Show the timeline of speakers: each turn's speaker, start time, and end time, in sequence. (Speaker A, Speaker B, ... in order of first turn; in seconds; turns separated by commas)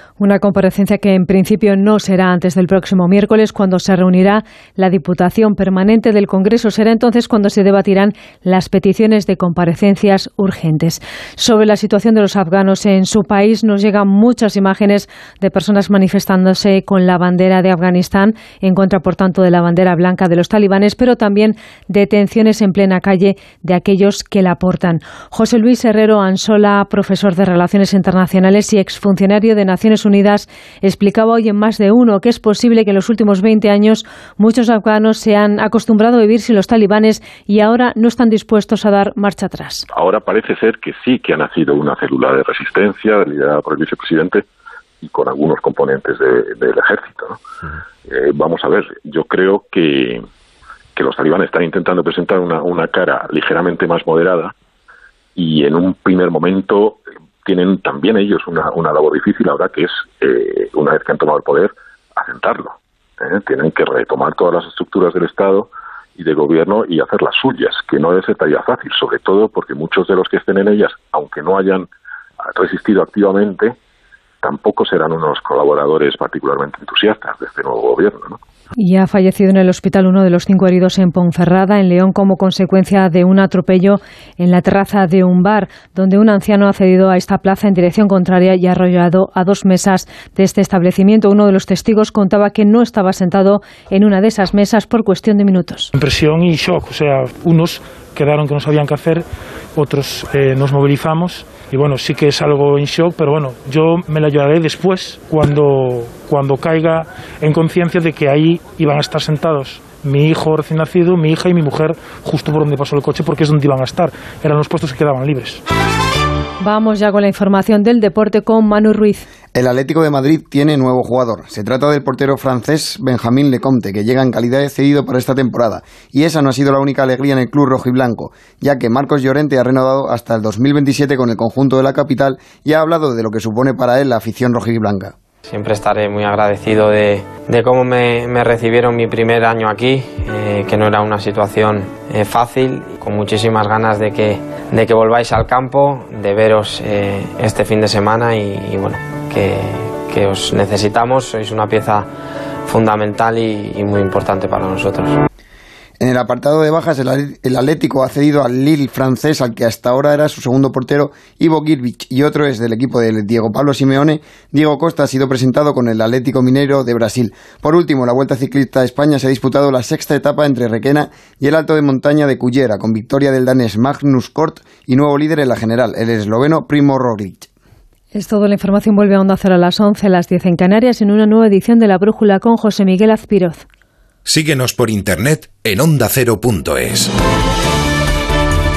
Speaker A: 0.2-39.8, Speaker B: 39.9-44.4, Speaker B: 45.0-47.4, Speaker B: 48.1-50.2, Speaker B: 51.0-54.5, Speaker B: 55.4-71.9, Speaker B: 72.5-73.7, Speaker B: 74.4-78.4, Speaker A: 78.8-95.9, Speaker C: 95.9-99.2, Speaker C: 99.8-115.6, Speaker A: 116.6-119.2, Speaker D: 119.5-135.1, Speaker E: 135.5-152.1, Speaker E: 152.6-155.2, Speaker D: 156.0-177.5, Speaker A: 178.1-183.6, Speaker F: 184.2-187.1